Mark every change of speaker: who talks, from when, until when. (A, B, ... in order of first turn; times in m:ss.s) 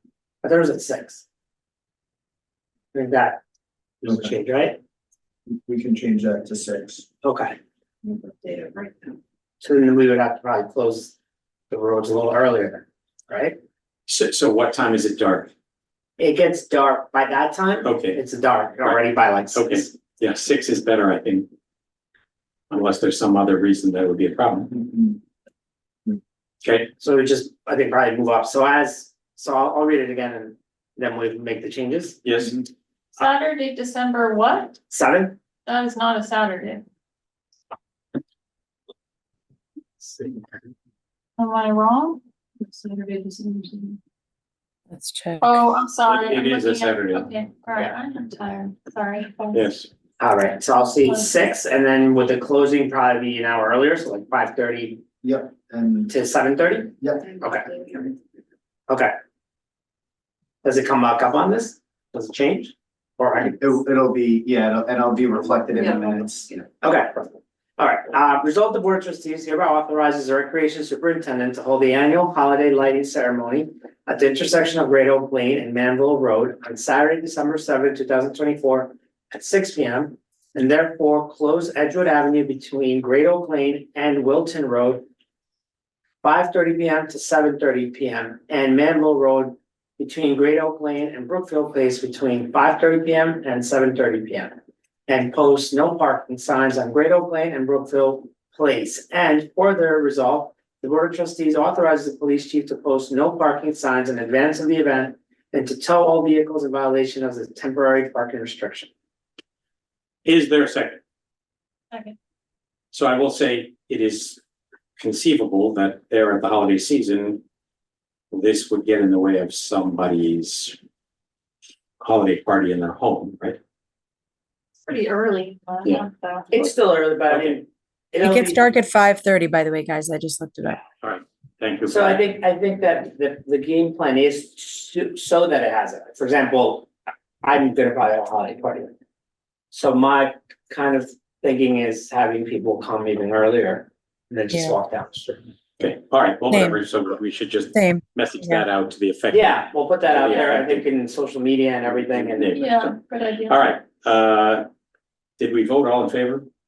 0:00.4-0:01.2 A
0:02.9-0:03.4 A
0:04.0-0:04.8 A
0:05.5-0:07.1 B
0:07.2-0:07.6 A
0:09.6-0:11.1 A
0:11.7-0:13.6 A
0:14.1-0:15.5 C
0:16.2-0:19.9 A
0:17.8-0:18.2 C
0:19.5-0:21.5 C
0:22.7-0:24.8 C
0:26.6-0:26.9 C
0:27.0-0:32.2 A
0:32.2-0:32.6 C
0:33.2-0:34.8 D
0:34.9-0:35.4 A
0:35.6-0:36.8 D
0:41.4-0:44.0 D
0:44.9-0:45.5 E
0:45.4-0:49.6 D
0:46.1-0:47.3 C
0:49.5-0:49.9 C
0:50.2-0:55.0 A
0:55.2-0:56.1 B
0:56.1-0:58.1 A
0:57.0-0:57.3 B
0:58.9-0:59.1 A
1:00.6-1:03.6 A
1:03.5-1:06.6 B
1:06.8-1:25.0 A
1:26.2-1:34.6 A
1:35.1-1:48.9 A
1:50.2-1:51.0 C
1:52.9-1:54.4 C
1:55.0-1:57.4 C
1:58.3-2:00.8 C
2:02.0-2:03.6 C
2:04.8-2:06.7 D
2:06.5-2:08.7 A
2:07.3-2:07.6 C
2:08.2-2:10.8 E
2:11.0-2:12.3 C
2:11.9-2:16.9 A
2:17.4-2:18.9 A
2:19.7-2:25.4 A
2:25.8-2:30.8 C
2:26.5-2:26.8 E
2:27.7-2:28.6 E
2:29.3-2:32.6 A
2:32.1-2:34.6 C
2:32.5-2:33.7 D
2:35.4-2:36.5 C